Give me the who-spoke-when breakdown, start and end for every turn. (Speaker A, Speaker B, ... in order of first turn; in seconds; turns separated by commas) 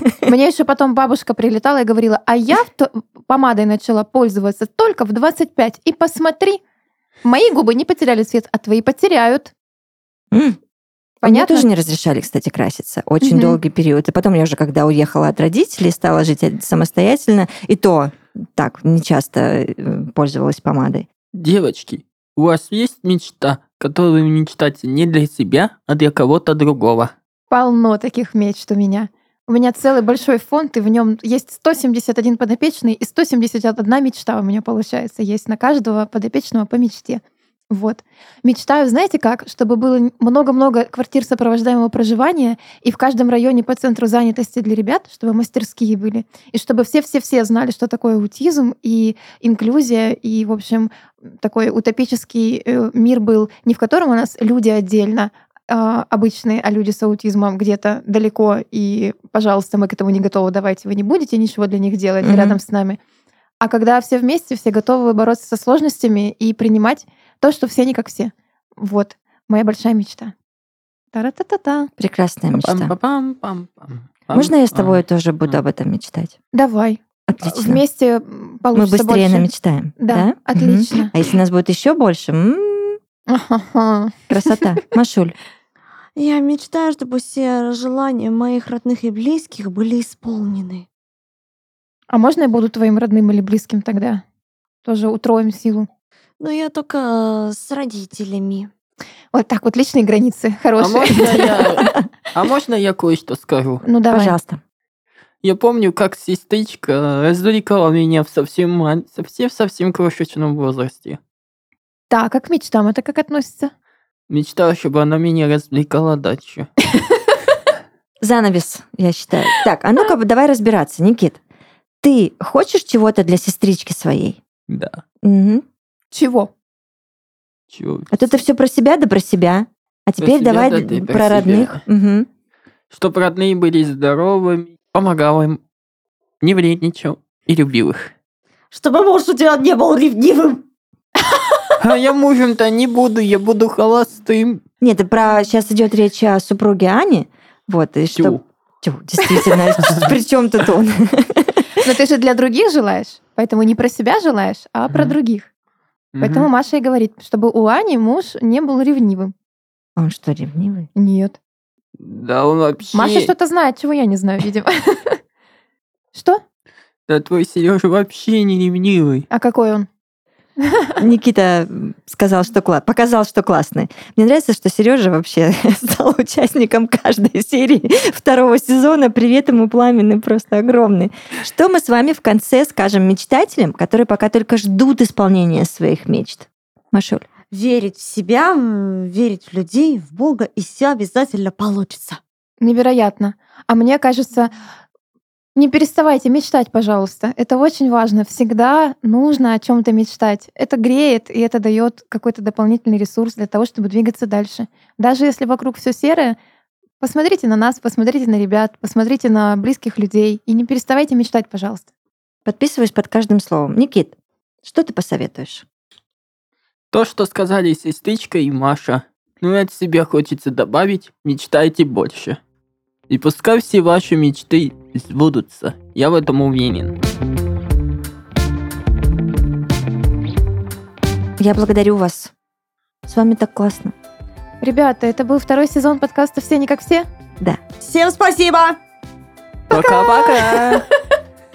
Speaker A: 0.2-6.6, Speaker A: 7.2-9.5, Speaker B: 10.3-10.6, Speaker B: 11.2-21.1, Speaker A: 11.2-11.7, Speaker A: 13.2-13.6, Speaker C: 21.3-27.1, Speaker A: 27.5-63.0, Speaker B: 62.2-62.6, Speaker A: 63.6-70.3, Speaker A: 71.1-71.9, Speaker B: 72.0-72.9, Speaker C: 72.5-75.6, Speaker B: 74.3-76.4, Speaker A: 76.5-81.1, Speaker B: 77.3-77.8, Speaker B: 78.7-83.0, Speaker A: 83.3-84.6, Speaker B: 84.3-85.3, Speaker D: 86.2-90.9, Speaker A: 92.1-94.2, Speaker A: 94.8-95.9, Speaker D: 96.4-98.7, Speaker A: 99.3-101.8, Speaker C: 100.8-103.8, Speaker B: 101.2-102.0, Speaker A: 103.8-104.4, Speaker B: 104.1-104.6, Speaker C: 105.4-111.2, Speaker A: 112.1-113.7, Speaker C: 114.3-116.7, Speaker B: 118.2-121.4, Speaker B: 122.0-124.4, Speaker C: 124.7-125.0, Speaker B: 125.2-125.6, Speaker A: 126.1-126.5, Speaker C: 127.7-128.4, Speaker B: 128.1-132.3, Speaker C: 130.2-131.8, Speaker C: 132.9-135.6, Speaker C: 136.4-138.1, Speaker D: 138.7-140.6, Speaker C: 141.8-144.6, Speaker B: 144.8-151.6, Speaker C: 148.1-148.4, Speaker A: 151.8-155.5, Speaker C: 154.9-155.2, Speaker C: 156.2-156.5, Speaker A: 156.2-159.3, Speaker B: 160.0-160.9, Speaker A: 161.0-161.4, Speaker C: 162.0-163.3, Speaker A: 162.9-165.2, Speaker A: 166.1-166.4, Speaker C: 167.1-169.3, Speaker A: 169.3-169.9, Speaker B: 171.0-187.2, Speaker D: 187.5-192.2, Speaker A: 192.6-194.6, Speaker A: 195.6-206.4, Speaker A: 207.0-211.9, Speaker B: 212.4-215.7, Speaker C: 216.9-222.4, Speaker C: 223.1-226.9, Speaker B: 231.4-232.3, Speaker B: 233.1-233.9, Speaker A: 234.6-237.1, Speaker D: 237.8-238.8, Speaker C: 239.7-240.8, Speaker A: 239.7-240.8